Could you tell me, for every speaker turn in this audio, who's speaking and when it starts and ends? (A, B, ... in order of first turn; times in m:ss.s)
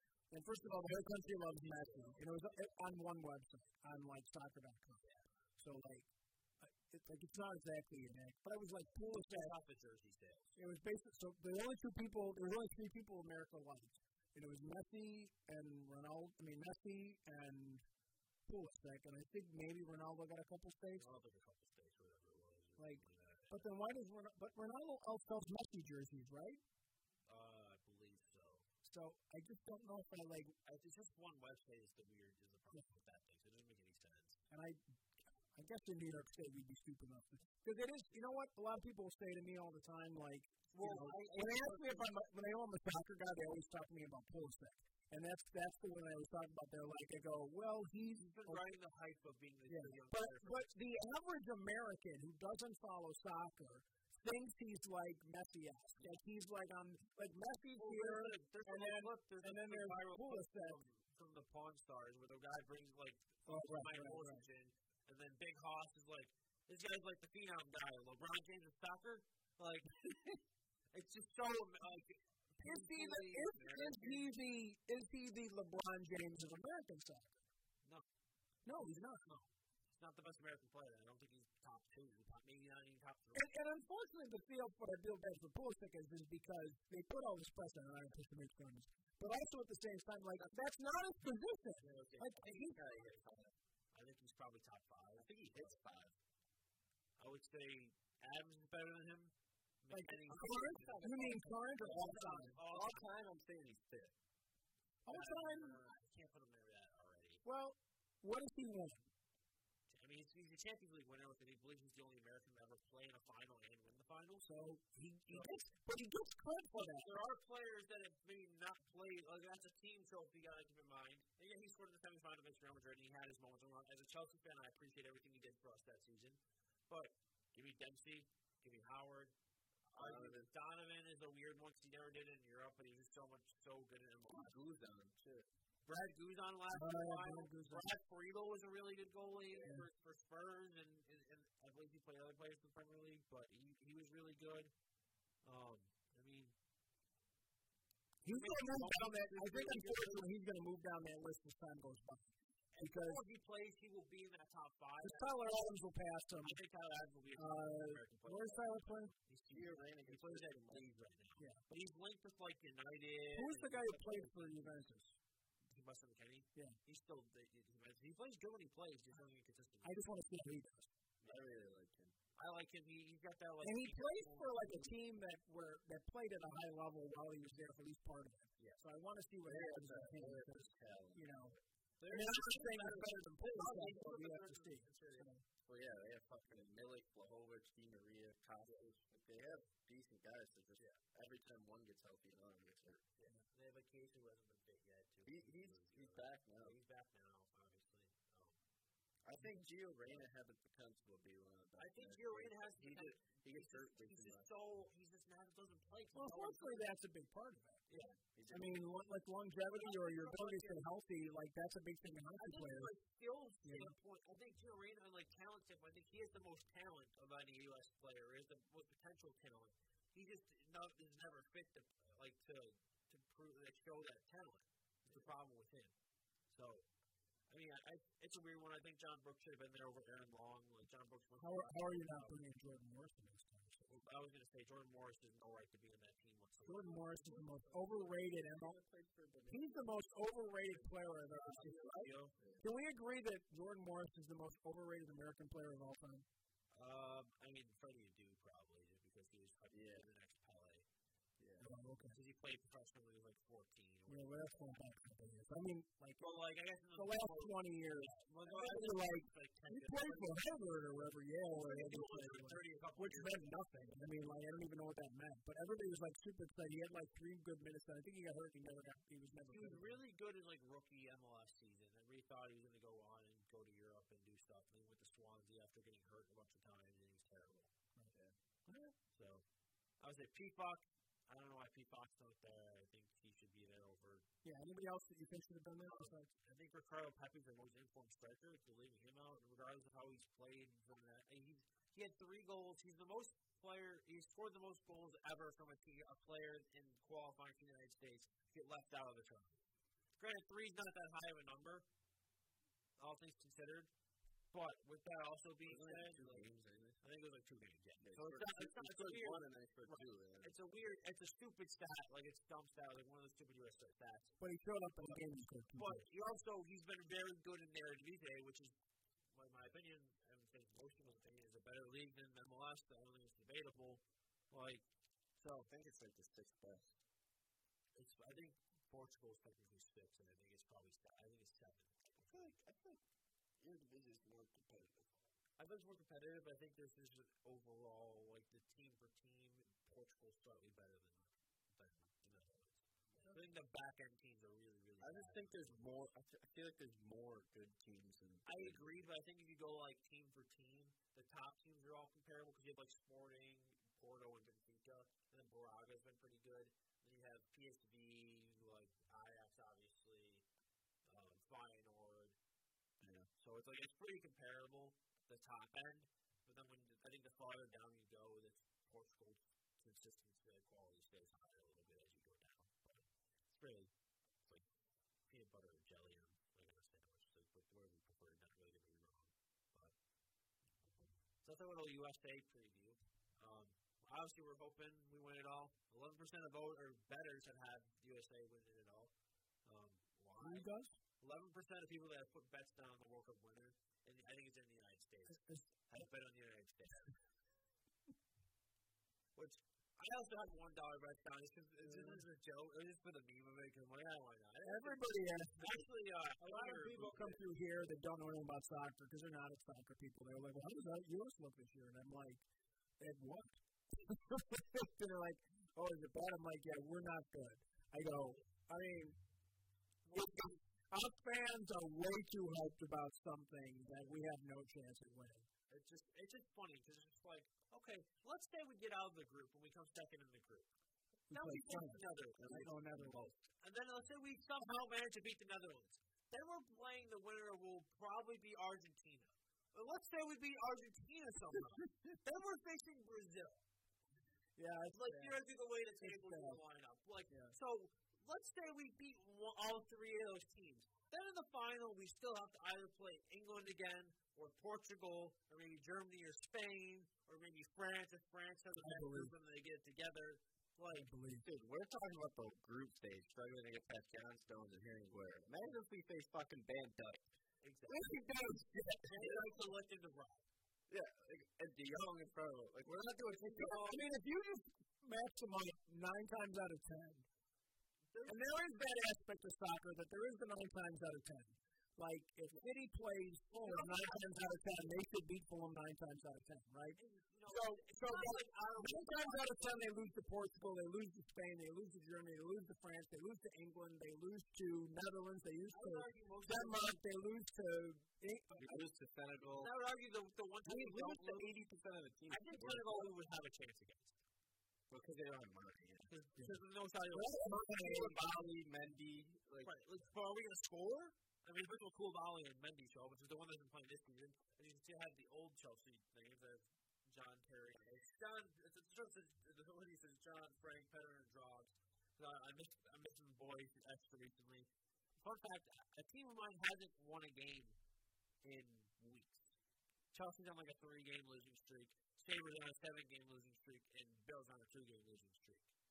0:00.3-0:05.0 A
0:00.6-0:02.4 B
0:05.6-0:06.1 A
0:06.6-0:09.5 A
0:09.1-0:10.6 B
0:10.6-0:17.8 A
0:18.5-0:21.1 A
0:21.0-0:23.6 B
0:22.8-0:26.6 A
0:27.3-0:28.7 B
0:28.8-0:30.6 A
0:30.6-0:34.4 B
0:34.5-0:34.8 A
0:35.5-0:48.7 A
0:40.7-0:42.1 B
0:48.2-0:50.6 B
0:49.7-1:00.8 A
0:57.8-1:10.0 B
1:03.5-1:04.5 A
1:10.0-1:10.3 A
1:10.9-1:14.3 B
1:12.6-1:17.4 A
1:18.6-1:19.3 A
1:18.8-1:23.5 B
1:23.3-1:32.8 A
1:31.8-1:33.2 B
1:32.5-1:33.6 C
1:33.9-1:35.8 B
1:35.2-1:36.2 C
1:37.2-1:43.1 B
1:39.9-1:42.6 A
1:40.3-1:44.2 C
1:45.0-1:45.9 A
1:45.1-1:47.4 B
1:47.4-1:49.1 A
1:49.9-1:54.8 B
1:54.4-1:57.1 A
1:55.3-1:55.6 B
1:56.7-2:09.3 B
2:09.9-2:14.6 B
2:10.0-2:10.5 C
2:14.3-2:15.5 C
2:15.9-2:24.7 B
2:16.7-2:17.9 A
2:19.6-2:19.9 A
2:25.4-2:26.6 B
2:28.2-2:33.2 A
2:28.3-2:30.3 B
2:32.7-2:35.3 B
2:35.0-2:36.6 A
2:36.4-2:44.4 B
2:37.4-2:39.1 A
2:39.5-2:40.9 C
2:41.4-2:41.6 A
2:43.3-2:45.2 A
2:45.7-2:50.0 B
2:49.8-2:50.9 A
2:51.2-2:52.2 C
2:52.4-2:54.9 B
2:53.6-3:01.6 A
2:59.4-3:01.6 C
3:02.0-3:05.3 B
3:02.1-3:05.4 A
3:05.6-3:13.0 C
3:08.6-3:08.9 B
3:13.2-3:18.6 B
3:15.2-3:16.8 C
3:19.2-3:24.5 C
3:21.8-3:26.9 B
3:26.1-3:27.8 A
3:27.9-3:28.2 B
3:28.3-3:28.8 C
3:28.5-3:32.9 A
3:29.7-3:30.8 B
3:32.4-3:45.9 B
3:33.6-3:33.9 A
3:46.5-3:46.9 B
3:47.5-3:52.4 B
3:51.4-3:54.0 A
3:53.9-3:57.1 B
3:56.6-3:58.8 A
3:57.1-3:59.9 C
3:59.5-4:06.3 A
4:01.3-4:02.3 B
4:02.3-4:02.6 C
4:06.7-4:10.9 B
4:09.7-4:10.1 C
4:11.4-4:11.7 C
4:11.6-4:12.2 A
4:12.1-4:14.7 B
4:14.1-4:16.3 A
4:16.2-4:20.4 B
4:17.0-4:30.0 A
4:21.6-4:23.4 B
4:29.5-4:37.7 B
4:38.1-4:38.4 C
4:38.7-4:38.9 A
4:39.1-4:39.4 B
4:40.0-4:44.3 B
4:44.4-4:46.3 A
4:45.8-4:59.6 B
5:00.2-5:01.9 B
5:03.0-5:03.9 B
5:04.5-5:06.4 B
5:05.6-5:07.0 C
5:07.0-5:14.3 B
5:08.0-5:10.6 C
5:14.4-5:16.0 A
5:15.8-5:18.8 B
5:19.3-5:24.8 B
5:25.4-5:25.7 B
5:25.7-5:27.0 C
5:28.0-5:32.5 B
5:32.2-5:33.0 C
5:33.6-5:35.2 C
5:35.6-5:45.8 B
5:45.0-5:48.9 C
5:48.5-6:00.4 B
6:01.0-6:02.4 B
6:03.0-6:03.3 C
6:03.4-6:13.9 B
6:15.3-6:19.9 B
6:21.4-6:29.1 B
6:29.6-6:30.7 B
6:30.4-6:31.0 A
6:31.2-6:37.1 B
6:35.3-6:35.7 A
6:39.4-6:47.4 B
6:41.8-6:42.2 A
6:44.6-6:45.8 A
6:46.4-6:52.4 A
6:53.0-6:59.2 A
7:00.0-7:00.6 B
7:00.1-7:05.5 A
7:05.7-7:10.7 B
7:11.3-7:13.3 A
7:11.3-7:23.6 B
7:21.6-7:21.8 A
7:24.6-7:25.4 A
7:24.9-7:41.1 B
7:26.0-7:26.6 A
7:27.3-7:27.6 A
7:38.8-7:39.3 A
7:40.9-7:41.5 A
7:41.4-7:47.3 C
7:47.6-7:48.2 B
7:47.9-7:49.6 A
7:49.1-7:50.5 B
7:50.9-7:53.3 C
7:52.8-7:54.1 B
7:53.4-7:57.3 A
7:58.1-7:58.5 B
7:58.3-8:18.5 A
8:03.6-8:04.6 B
8:07.0-8:10.0 B
8:15.7-8:17.0 B
8:18.5-8:18.8 B
8:18.6-8:19.7 C
8:19.4-8:21.5 B
8:20.6-8:23.1 C
8:22.3-8:24.2 B
8:24.9-8:26.1 C
8:26.1-8:28.2 B
8:27.1-8:28.2 A
8:27.4-8:29.7 C
8:29.6-8:44.7 B
8:45.2-8:47.8 B
8:48.4-8:49.4 B
8:50.1-8:55.7 B